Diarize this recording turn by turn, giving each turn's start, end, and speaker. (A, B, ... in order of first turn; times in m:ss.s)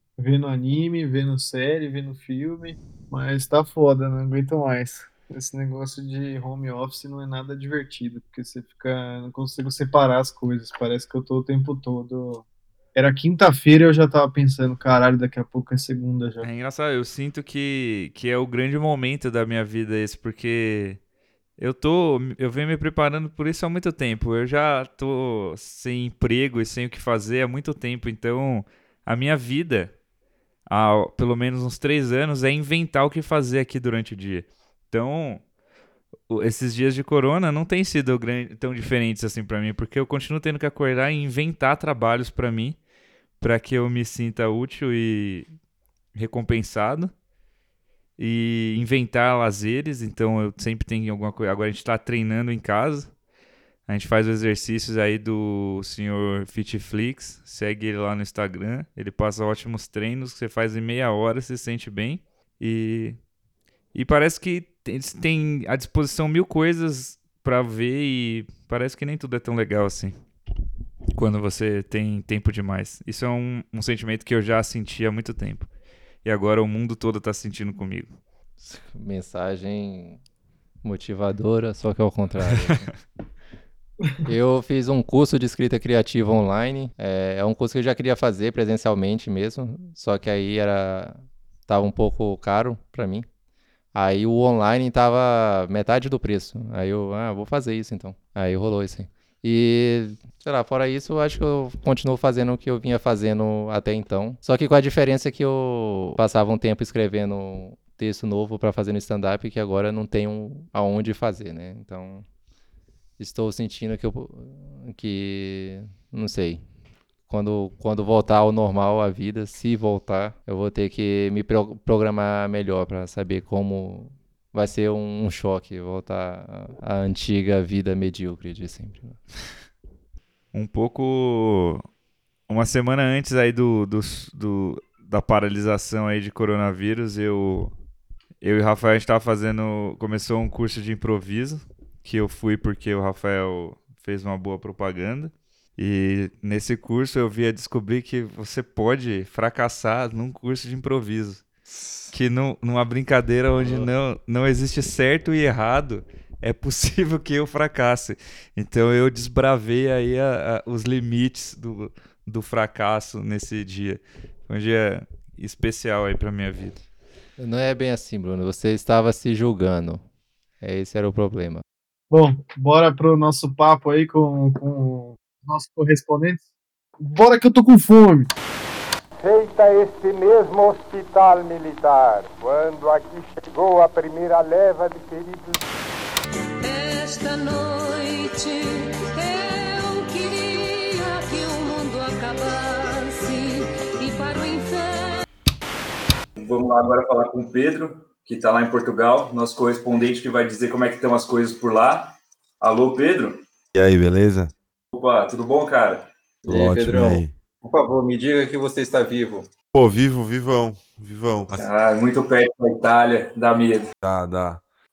0:00.2-0:16.5 A
0:16.4-0:21.0 B
0:21.6-0:30.0 B
0:30.7-0:35.4 B
0:36.3-0:42.8 B
0:43.4-0:45.5 B
0:46.2-0:47.1 B
0:48.2-0:53.1 B
0:53.9-1:03.2 B
1:03.9-1:10.2 B
1:11.1-1:15.7 B
1:16.2-1:18.1 B
1:18.6-1:20.2 C
1:20.8-1:22.9 C
1:24.2-1:33.3 C
1:33.9-1:52.2 C
1:53.2-1:56.6 C
1:57.3-2:09.2 C
2:10.5-2:11.8 B
2:12.5-2:17.7 B
2:18.4-2:31.4 B
2:32.1-2:46.8 B
2:47.4-2:50.0 C
2:50.6-2:51.6 C
2:52.1-2:56.4 A
2:57.0-2:58.3 A
2:59.2-3:05.6 D
3:06.6-3:15.2 E
3:16.4-3:23.4 F
3:23.7-3:24.5 G
3:24.9-3:26.1 F
3:26.4-3:29.5 H
3:26.5-3:27.3 G
3:29.7-3:31.6 G
3:31.5-3:33.9 F
3:34.0-3:34.6 G